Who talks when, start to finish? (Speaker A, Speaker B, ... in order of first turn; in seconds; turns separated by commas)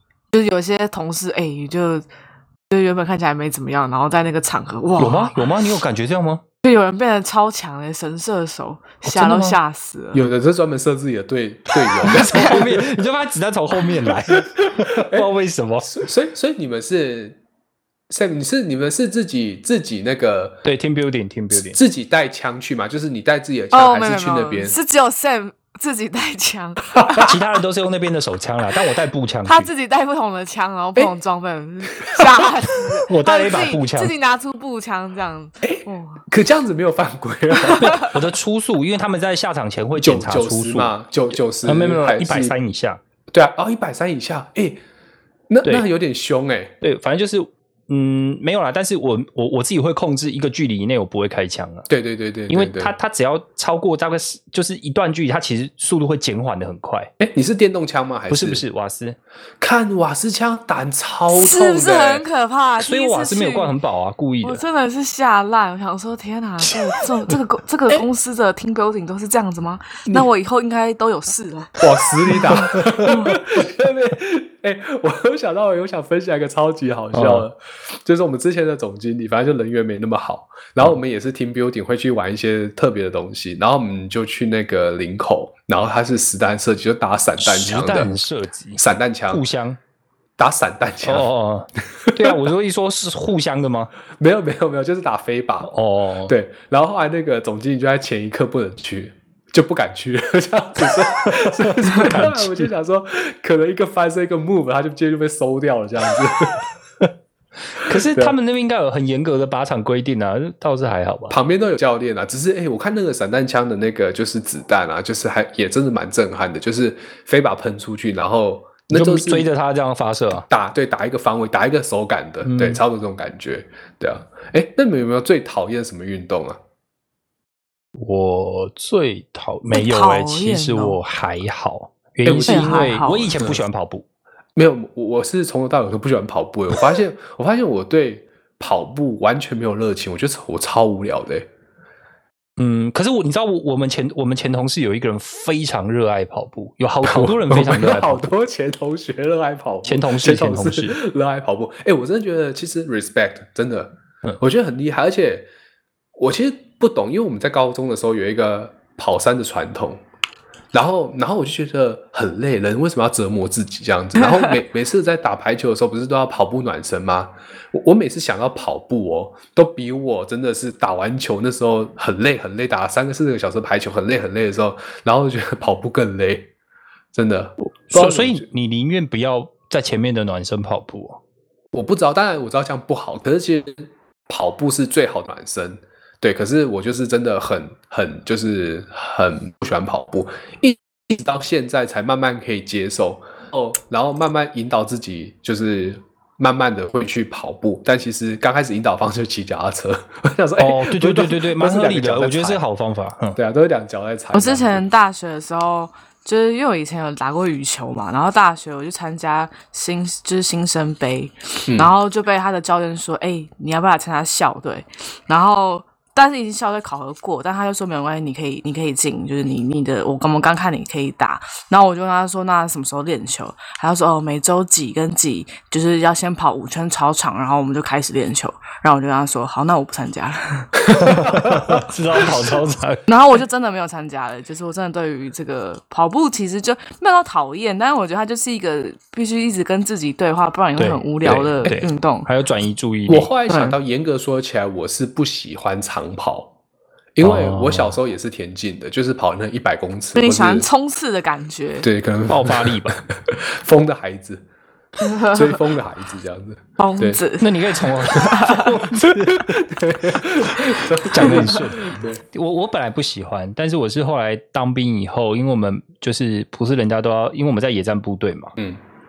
Speaker A: 0.3-2.0, Speaker A: 2.7-5.5, Speaker B: 5.0-6.4, Speaker A: 6.6-10.2, Speaker B: 9.1-9.6, Speaker C: 10.1-12.9, Speaker B: 12.0-16.0, Speaker A: 12.1-12.5, Speaker C: 14.1-15.3, Speaker C: 15.8-17.4, Speaker C: 18.1-20.6, Speaker B: 20.6-21.8, Speaker C: 21.5-24.8, Speaker A: 23.7-27.4, Speaker C: 26.9-27.3, Speaker B: 27.2-29.7, Speaker A: 29.4-36.2, Speaker C: 32.0-32.3, Speaker B: 33.1-34.1, Speaker C: 35.6-38.0, Speaker A: 37.6-38.1, Speaker B: 37.8-40.9, Speaker C: 40.0-42.5, Speaker B: 41.6-43.0, Speaker C: 43.3-44.8, Speaker C: 45.5-46.7, Speaker B: 46.8-51.9, Speaker C: 51.9-52.9, Speaker B: 52.5-57.1, Speaker C: 57.2-58.6, Speaker B: 58.3-59.2, Speaker C: 59.6-62.2, Speaker A: 61.3-63.7, Speaker B: 62.8-64.6, Speaker A: 64.4-73.3, Speaker C: 71.8-88.1, Speaker B: 77.1-77.5, Speaker B: 87.4-89.8, Speaker C: 88.8-89.4, Speaker C: 90.4-91.3, Speaker B: 91.0-93.9, Speaker C: 92.0-92.4, Speaker C: 94.2-95.7, Speaker B: 95.6-96.3, Speaker C: 96.3-106.7, Speaker B: 101.3-102.7, Speaker B: 107.7-111.4, Speaker C: 107.9-108.3, Speaker C: 111.3-119.5, Speaker B: 118.9-120.5, Speaker C: 120.4-126.6, Speaker B: 122.4-122.8, Speaker B: 128.0-134.1, Speaker A: 129.7-131.0, Speaker C: 132.2-132.8, Speaker A: 132.4-133.3, Speaker C: 134.6-141.5, Speaker B: 142.6-148.3, Speaker C: 147.0-155.5, Speaker B: 149.9-151.0, Speaker C: 156.2-160.0, Speaker C: 160.7-176.5, Speaker C: 177.1-178.4, Speaker B: 177.9-181.2, Speaker C: 181.7-202.6, Speaker B: 200.6-203.4, Speaker C: 203.4-204.8, Speaker A: 204.3-230.9, Speaker C: 211.7-211.9, Speaker C: 230.9-231.9, Speaker B: 231.0-233.1, Speaker A: 233.1-242.3, Speaker B: 240.8-243.3, Speaker C: 243.1-246.5, Speaker A: 243.5-243.8, Speaker C: 247.2-250.7, Speaker B: 247.2-248.0, Speaker A: 250.2-251.9, Speaker C: 251.8-254.4, Speaker B: 252.3-253.0, Speaker A: 255.0-255.5, Speaker C: 255.2-257.2, Speaker A: 256.8-258.7, Speaker B: 257.4-268.6, Speaker C: 258.9-262.2